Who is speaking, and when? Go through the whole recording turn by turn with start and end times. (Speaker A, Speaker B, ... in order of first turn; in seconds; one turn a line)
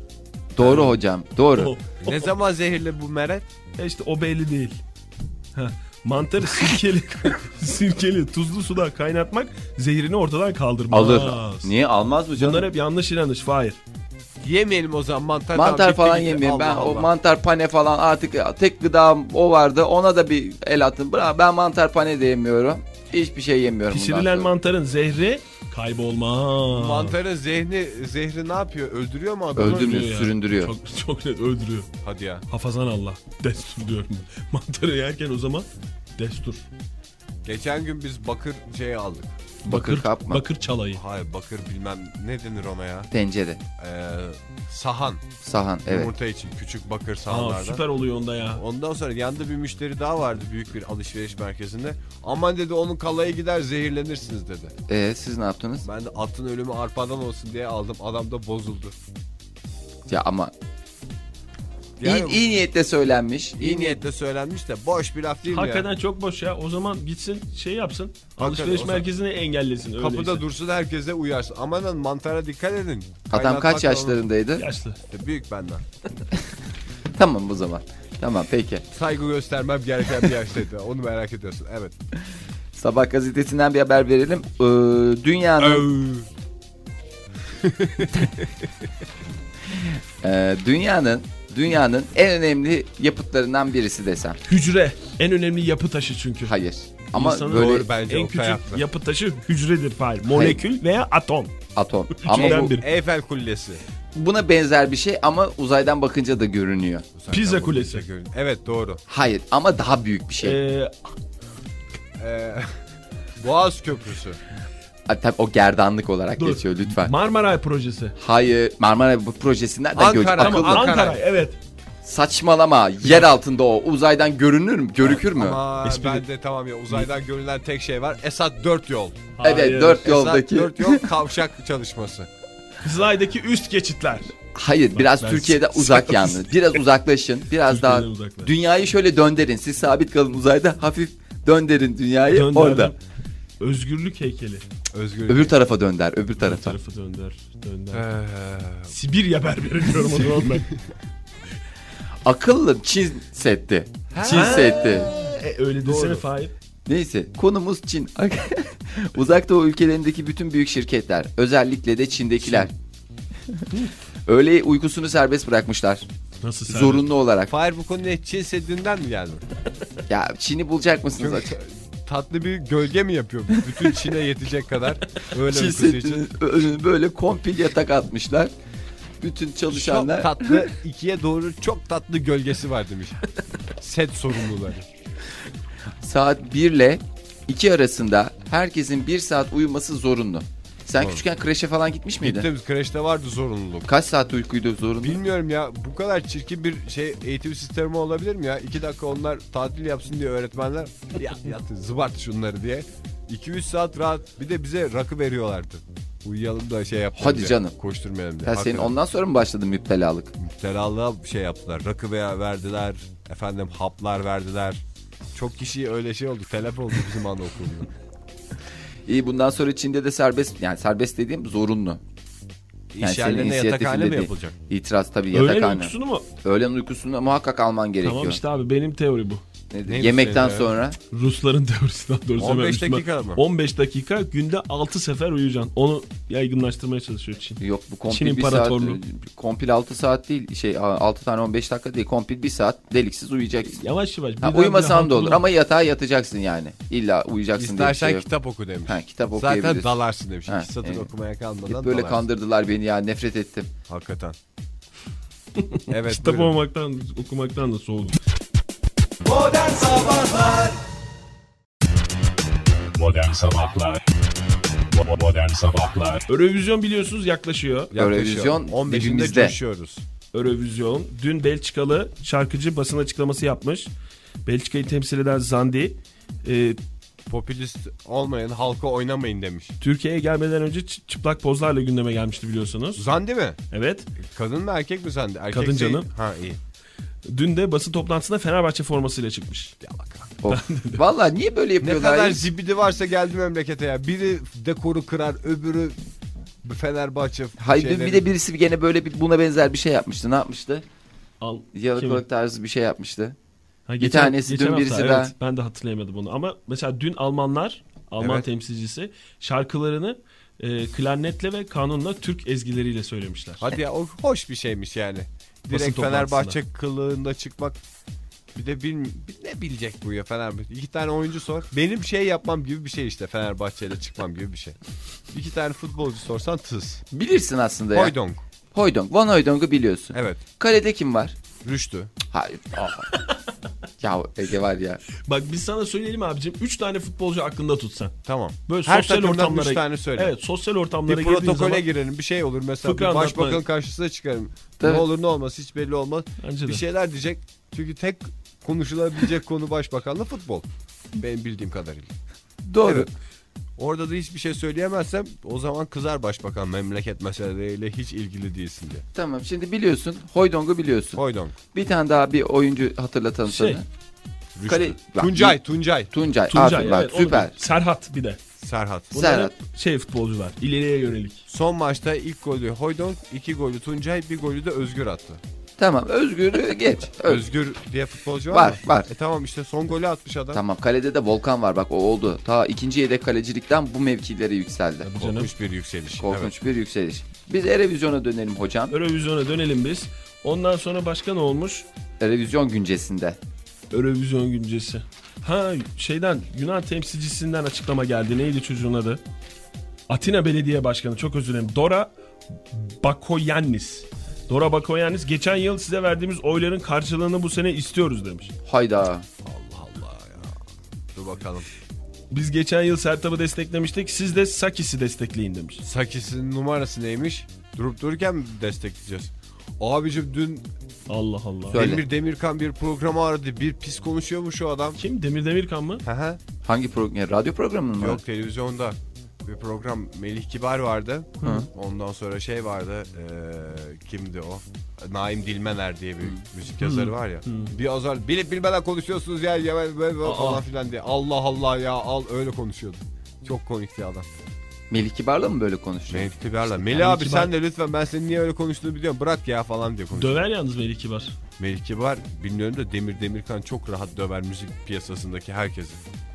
Speaker A: 0.6-1.7
Speaker B: 0.6-1.0
Speaker B: 1.6-2.3
Speaker C: 2.0-3.5
Speaker B: 3.8-4.8
Speaker B: 5.5-11.7
Speaker A: 10.9-12.7
Speaker B: 12.4-13.8
Speaker C: 14.4-17.1
Speaker A: 15.5-24.5
Speaker B: 23.9-27.2
Speaker C: 26.7-30.0
Speaker A: 29.6-30.7
Speaker B: 29.6-31.9
Speaker C: 32.0-32.5
Speaker B: 32.5-36.7
Speaker C: 37.4-39.4
Speaker B: 39.6-41.0
Speaker A: 39.6-40.4
Speaker C: 40.9-43.1
Speaker A: 43.1-43.6
Speaker C: 43.8-45.2
Speaker A: 45.4-46.1
Speaker C: 45.9-47.8
Speaker B: 47.3-48.6
Speaker C: 48.5-54.7
Speaker A: 54.9-55.9
Speaker C: 55.8-59.0
Speaker A: 60.1-60.5
Speaker C: 62.0-62.4
Speaker A: 62.0-64.0
Speaker C: 63.6-65.9
Speaker B: 65.5-70.5
Speaker C: 68.4-69.1
Speaker C: 70.0-74.2
Speaker A: 73.3-74.7
Speaker B: 74.6-75.0
Speaker C: 75.1-75.8
Speaker A: 77.1-78.8
Speaker C: 78.9-81.9
Speaker A: 82.8-85.9
Speaker C: 85.6-86.3
Speaker C: 87.6-88.5
Speaker A: 89.7-94.4
Speaker B: 94.5-96.6
Speaker A: 96.5-97.9
Speaker B: 97.1-101.5
Speaker C: 97.5-98.8
Speaker A: 100.3-100.6
Speaker A: 101.8-102.7
Speaker B: 102.1-102.8
Speaker C: 102.3-103.8
Speaker A: 104.1-107.1
Speaker C: 107.2-109.0
Speaker B: 107.3-108.0
Speaker A: 109.1-110.6
Speaker B: 110.4-111.1
Speaker C: 112.2-112.7
Speaker C: 113.4-114.4
Speaker A: 115.1-117.1
Speaker B: 116.4-118.2
Speaker A: 118.2-121.0
Speaker C: 120.0-121.2
Speaker B: 120.4-121.6
Speaker A: 122.0-125.6
Speaker C: 125.0-129.4
Speaker B: 125.8-126.3
Speaker B: 129.4-130.1
Speaker A: 129.4-131.1
Speaker C: 130.0-132.3
Speaker B: 132.8-134.3
Speaker A: 134.5-142.9
Speaker B: 134.9-136.5
Speaker B: 137.7-138.5
Speaker B: 142.3-143.0
Speaker B: 143.6-144.7
Speaker C: 144.9-145.6
Speaker A: 145.3-146.8
Speaker B: 146.4-148.1
Speaker C: 147.9-148.9
Speaker B: 148.9-150.7
Speaker A: 152.2-155.1
Speaker C: 154.1-156.2
Speaker B: 154.2-156.5
Speaker A: 156.9-162.7
Speaker A: 164.3-166.1
Speaker B: 166.4-167.1
Speaker A: 166.7-167.5
Speaker C: 167.5-169.4
Speaker A: 170.1-171.5
Speaker C: 171.2-176.2
Speaker A: 173.6-174.2
Speaker A: 175.4-178.5
Speaker A: 179.2-180.7
Speaker C: 179.7-183.2
Speaker C: 183.8-184.9
Speaker A: 186.0-192.5
Speaker C: 192.2-193.9
Speaker A: 193.9-195.2
Speaker C: 195.0-208.9
Speaker A: 207.2-207.8
Speaker A: 208.4-210.3
Speaker C: 210.4-214.8
Speaker C: 215.3-217.9
Speaker A: 219.1-222.0
Speaker C: 222.9-224.6
Speaker A: 223.0-228.4
Speaker B: 225.3-226.3
Speaker B: 228.0-229.4
Speaker A: 229.7-231.0
Speaker C: 229.9-230.7
Speaker B: 231.1-239.0
Speaker C: 232.4-233.4
Speaker A: 237.6-243.8
Speaker B: 243.8-245.4
Speaker A: 244.4-248.3
Speaker C: 247.6-252.2
Speaker A: 248.9-249.9
Speaker A: 250.5-251.1
Speaker A: 251.7-253.7
Speaker C: 253.9-254.4
Speaker B: 255.6-258.2
Speaker C: 255.9-256.6
Speaker C: 259.3-260.7
Speaker D: 262.9-264.1
Speaker D: 264.7-266.2
Speaker B: 266.3-267.9
Speaker C: 267.9-270.0
Speaker A: 267.9-269.6
Speaker B: 270.3-273.9
Speaker B: 274.4-276.8
Speaker C: 277.3-279.7
Speaker B: 279.8-283.1
Speaker C: 283.0-283.6
Speaker B: 283.7-284.1
Speaker C: 284.2-286.6
Speaker B: 285.5-286.1
Speaker B: 287.3-289.8
Speaker C: 289.8-290.4
Speaker A: 290.4-292.5
Speaker B: 290.5-291.1
Speaker C: 291.8-296.0
Speaker C: 296.6-298.2
Speaker A: 297.6-300.9
Speaker B: 301.4-302.2
Speaker A: 301.7-303.4
Speaker B: 303.9-313.6
Speaker A: 304.0-305.3
Speaker C: 313.6-317.8
Speaker B: 315.7-316.6
Speaker C: 318.6-324.8
Speaker C: 325.3-327.0
Speaker A: 327.1-328.1
Speaker C: 327.9-328.4
Speaker A: 328.7-331.4
Speaker C: 330.1-330.4
Speaker C: 331.6-332.1
Speaker A: 332.3-333.1
Speaker A: 334.0-335.0
Speaker B: 335.2-341.9
Speaker C: 338.2-340.3
Speaker C: 341.1-350.6
Speaker B: 342.8-343.6
Speaker A: 344.8-345.1
Speaker B: 346.4-346.8
Speaker C: 351.2-352.1
Speaker A: 352.6-353.1
Speaker C: 352.9-353.1
Speaker C: 353.8-359.1
Speaker A: 359.1-361.2
Speaker C: 361.2-361.6
Speaker A: 361.7-363.9
Speaker B: 363.5-363.8
Speaker C: 364.6-366.1
Speaker A: 364.6-367.6
Speaker B: 366.5-368.4
Speaker C: 368.6-369.1
Speaker A: 369.1-369.5
Speaker B: 369.1-371.4
Speaker C: 371.5-375.4
Speaker A: 375.8-377.4
Speaker C: 377.2-380.6
Speaker A: 378.5-379.1
Speaker A: 380.5-385.1
Speaker B: 385.0-385.5
Speaker C: 385.2-386.5
Speaker A: 386.2-388.9
Speaker B: 388.9-391.9
Speaker A: 392.2-393.4
Speaker B: 393.9-399.2
Speaker B: 400.1-402.1
Speaker B: 402.7-408.5
Speaker A: 408.6-409.3
Speaker C: 409.4-410.6
Speaker C: 411.1-411.7
Speaker B: 412.3-415.8
Speaker C: 415.8-420.7
Speaker B: 421.1-421.9
Speaker A: 421.7-422.1
Speaker C: 421.7-425.0
Speaker B: 425.0-426.0
Speaker C: 426.0-426.4
Speaker A: 426.6-428.2
Speaker C: 428.0-444.3
Speaker B: 436.8-437.7
Speaker B: 440.2-440.6
Speaker A: 444.9-446.3
Speaker C: 446.1-450.4
Speaker B: 446.9-447.5
Speaker B: 450.1-451.4
Speaker C: 451.6-456.0